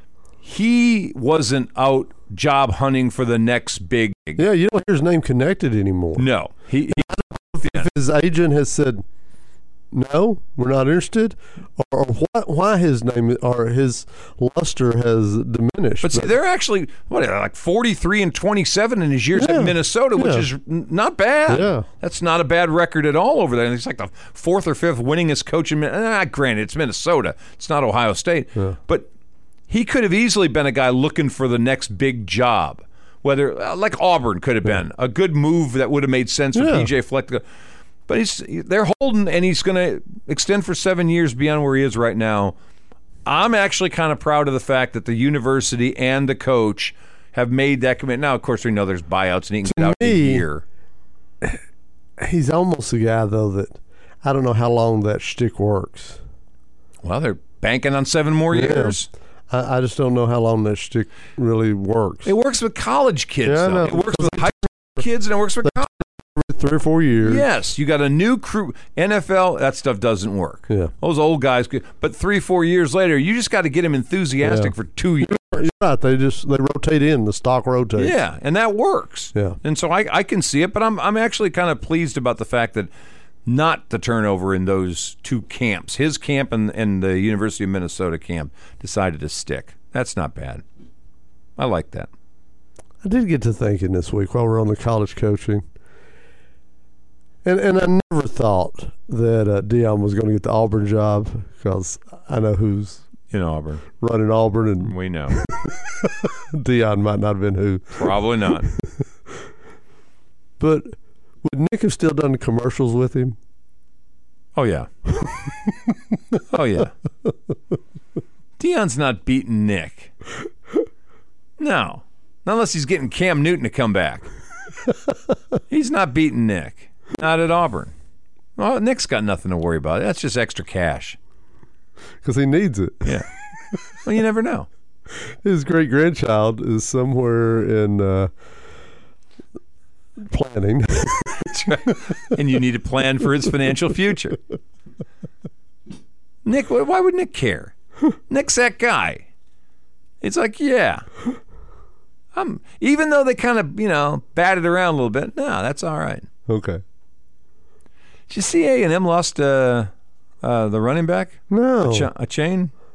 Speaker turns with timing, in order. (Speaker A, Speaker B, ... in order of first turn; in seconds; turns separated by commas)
Speaker A: 0.4-4.5, Speaker B: 4.4-6.3, Speaker A: 6.2-7.9, Speaker B: 6.9-9.0, Speaker B: 9.9-16.4, Speaker A: 16.0-29.1, Speaker B: 19.4-20.5, Speaker B: 21.5-21.9, Speaker A: 29.7-37.4, Speaker B: 36.5-36.9, Speaker A: 38.1-42.5, Speaker A: 43.3-50.6, Speaker B: 49.6-50.5, Speaker B: 52.2-56.2, Speaker A: 57.0-59.1, Speaker B: 58.5-59.0, Speaker B: 59.5-62.3, Speaker A: 62.2-65.9, Speaker B: 63.5-65.0, Speaker B: 65.6-67.5, Speaker A: 67.2-75.7, Speaker B: 74.4-78.2, Speaker A: 78.0-82.9, Speaker A: 83.5-90.6, Speaker A: 91.6-92.1, Speaker B: 93.0-95.6, Speaker B: 97.4-103.0, Speaker A: 103.3-103.8, Speaker B: 104.0-108.1, Speaker A: 104.8-105.4, Speaker A: 107.9-108.7, Speaker B: 110.6-113.4, Speaker A: 114.6-114.9, Speaker A: 116.5-116.9, Speaker A: 118.6-120.1, Speaker A: 121.6-124.3, Speaker A: 125.7-127.9, Speaker A: 128.6-131.2, Speaker B: 132.2-133.2, Speaker A: 134.0-134.7, Speaker B: 135.2-138.3, Speaker B: 140.2-141.5, Speaker A: 141.4-144.4, Speaker A: 146.4-147.7, Speaker A: 148.3-149.3, Speaker A: 150.2-151.1, Speaker A: 152.3-156.3, Speaker B: 156.5-156.8, Speaker A: 158.3-159.9, Speaker A: 160.4-162.7, Speaker B: 161.5-162.1